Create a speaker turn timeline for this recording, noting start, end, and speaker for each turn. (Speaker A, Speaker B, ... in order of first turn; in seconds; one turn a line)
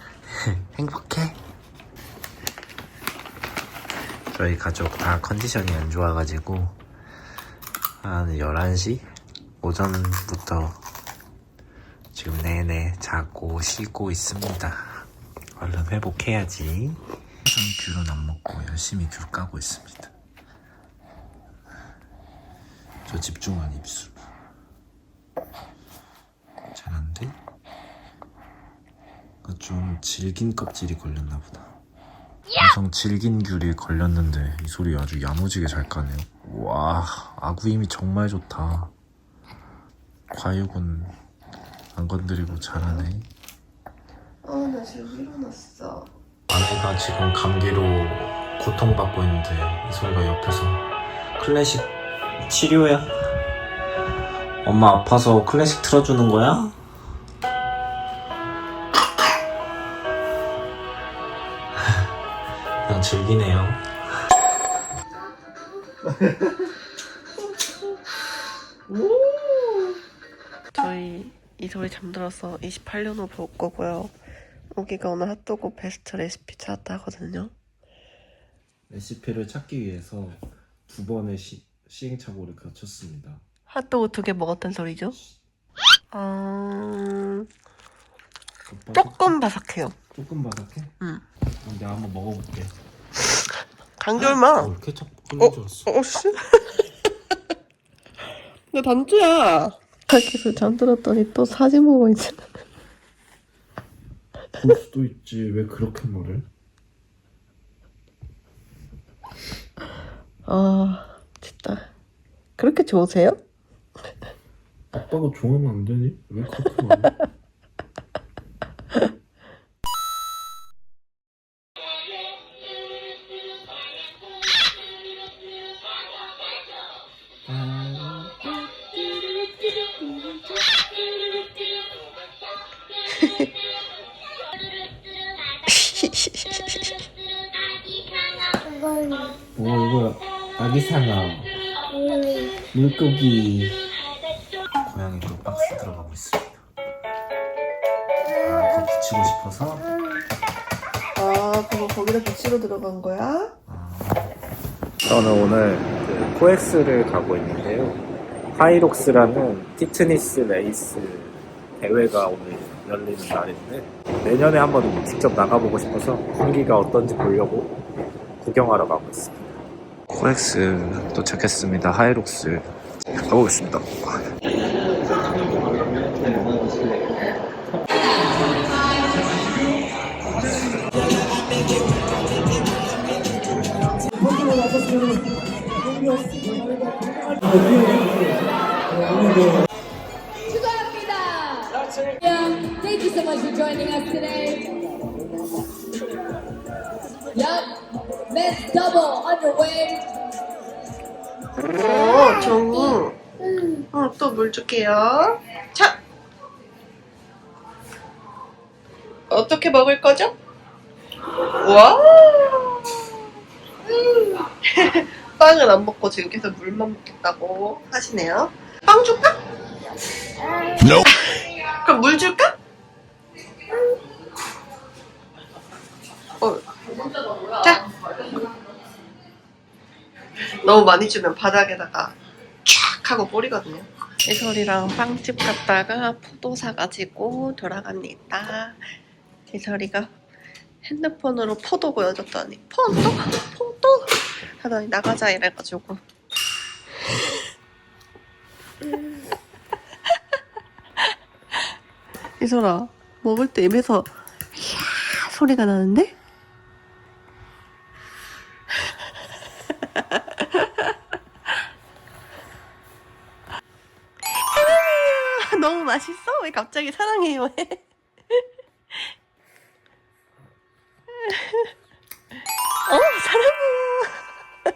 Speaker A: 0.3-1.4
Speaker A: 4.3-6.8
Speaker A: 8.0-9.1
Speaker A: 9.6-10.8
Speaker A: 12.1-20.1
Speaker A: 23.1-24.2
Speaker A: 26.7-27.4
Speaker A: 29.4-31.7
Speaker A: 32.5-38.9
Speaker A: 40.3-41.1
Speaker A: 41.9-43.3
Speaker B: 44.4-46.1
Speaker A: 46.5-50.8
Speaker A: 51.4-51.9
Speaker A: 52.5-53.1
Speaker A: 54.6-56.8
Speaker A: 61.8-62.1
Speaker A: 62.8-63.9
Speaker A: 66.2-66.5
Speaker A: 68.9-70.0
Speaker B: 70.7-74.1
Speaker B: 74.7-77.5
Speaker A: 78.9-83.4
Speaker B: 83.7-85.2
Speaker B: 86.1-87.5
Speaker A: 88.7-89.3
Speaker B: 88.9-90.0
Speaker A: 90.1-90.9
Speaker A: 91.6-92.7
Speaker B: 94.0-94.7
Speaker A: 94.2-95.9
Speaker B: 95.4-96.8
Speaker B: 98.7-102.4
Speaker A: 104.6-106.5
Speaker B: 110.5-111.9
Speaker B: 112.6-113.4
Speaker A: 114.9-117.1
Speaker A: 127.5-128.7
Speaker B: 133.1-133.4
Speaker B: 135.7-136.9
Speaker C: 138.0-139.3
Speaker A: 139.6-141.5
Speaker C: 141.9-142.6
Speaker A: 142.7-143.8
Speaker A: 144.8-146.6
Speaker A: 148.4-149.9
Speaker B: 151.2-153.6
Speaker A: 153.7-154.3
Speaker A: 155.0-158.0
Speaker A: 158.5-167.7
Speaker A: 168.4-169.6
Speaker A: 170.1-174.2
Speaker A: 175.9-177.1
Speaker C: 190.4-194.8
Speaker C: 197.3-200.1
Speaker B: 201.7-203.2
Speaker C: 201.9-202.9
Speaker B: 203.9-206.0
Speaker B: 209.3-210.3
Speaker B: 211.5-213.1
Speaker B: 213.9-219.3
Speaker B: 221.0-222.6
Speaker B: 226.4-226.6
Speaker B: 227.5-227.9
Speaker B: 230.6-238.8
Speaker B: 239.5-240.1
Speaker B: 240.8-246.0
Speaker B: 252.4-256.1
Speaker B: 259.9-260.9
Speaker B: 264.3-268.4
Speaker B: 271.2-271.7
Speaker B: 272.9-274.2